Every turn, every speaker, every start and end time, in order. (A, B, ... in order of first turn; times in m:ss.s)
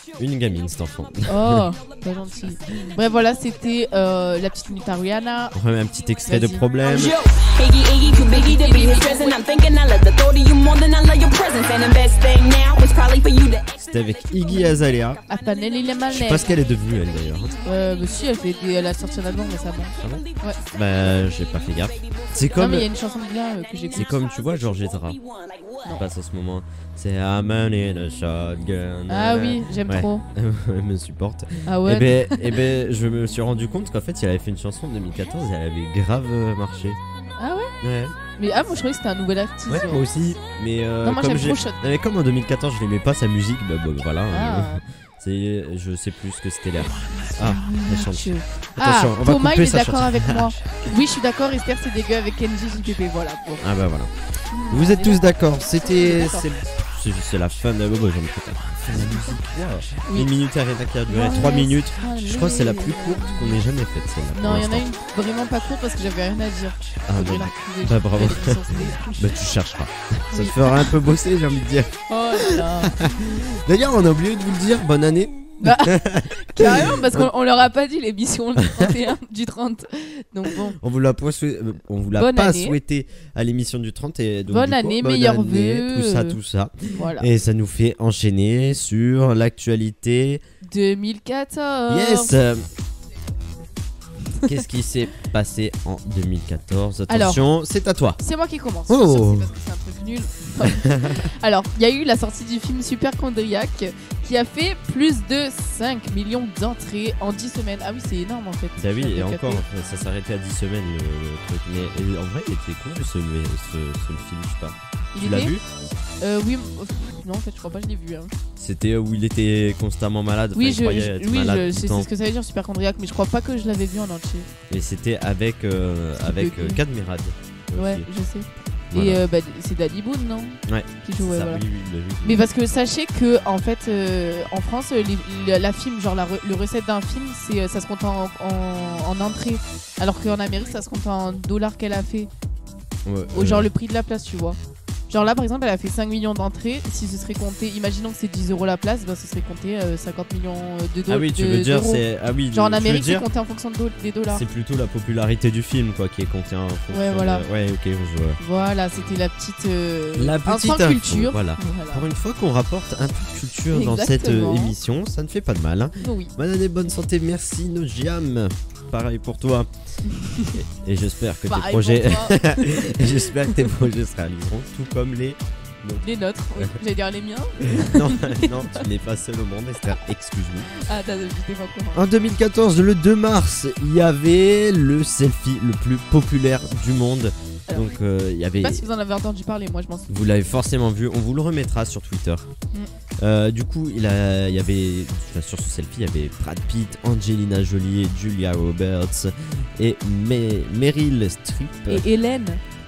0:00.2-0:01.7 A
0:01.3-0:05.6 B
0:05.5-0:07.2 A
0:06.2-0:06.6 B
0:06.8-0:13.7 C
0:08.1-0:09.4 B
0:13.8-0:15.2 A
0:15.3-0:16.5 B
0:16.1-0:17.6 A
0:17.6-0:20.6 B
0:20.0-0:22.9 A
0:22.0-0:22.9 C
0:22.6-0:24.1 B
0:23.9-0:25.2 A
0:25.1-0:25.8 C
0:25.9-0:37.0 A
0:29.1-0:30.2 B
0:31.6-0:32.6 B
0:37.4-0:37.7 B
0:37.8-0:38.2 A
0:38.4-0:40.1 B
0:39.7-0:50.8 A
0:41.0-0:41.8 B
0:44.3-0:44.8 B
0:47.3-0:53.7 B
0:53.6-0:54.1 A
0:54.5-0:55.3 B
0:54.7-1:04.9 A
0:55.9-0:56.5 B
1:00.0-1:00.3 B
1:01.1-1:03.6 B
1:04.3-1:09.4 B
1:07.1-1:17.3 A
1:10.3-1:10.9 B
1:12.1-1:13.0 B
1:15.6-1:20.8 B
1:20.6-1:30.4 A
1:22.2-1:22.8 B
1:24.5-1:26.4 B
1:27.0-1:27.3 B
1:30.6-1:32.3 B
1:31.9-1:32.7 A
1:34.4-1:38.2 A
1:37.1-1:37.4 B
1:38.2-1:49.6 B
1:38.9-1:39.5 A
1:40.6-1:41.3 A
1:48.8-1:55.6 A
1:55.1-1:55.6 B
1:56.2-1:58.3 B
1:58.6-2:02.1 A
2:00.6-2:04.5 B
2:04.7-2:08.1 A
2:06.2-2:06.8 B
2:07.7-2:11.6 B
2:08.9-2:09.2 A
2:10.7-2:12.5 A
2:12.2-2:22.3 B
2:23.0-2:23.7 A
2:23.3-2:24.6 B
2:25.1-2:34.5 B
2:31.1-2:33.3 A
2:34.3-2:38.4 A
2:36.9-2:37.4 B
2:38.4-2:42.1 B
2:40.2-2:49.7 A
2:43.7-2:44.8 B
2:46.0-2:46.3 B
2:50.1-2:50.6 B
2:50.5-2:56.0 A
2:51.5-2:53.7 B
2:56.0-2:58.8 B
2:57.7-3:00.7 A
3:00.7-3:02.0 B
3:01.9-3:08.8 A
3:08.6-3:10.3 B
3:10.1-3:12.5 A
3:13.2-3:22.1 A
3:21.9-3:22.6 B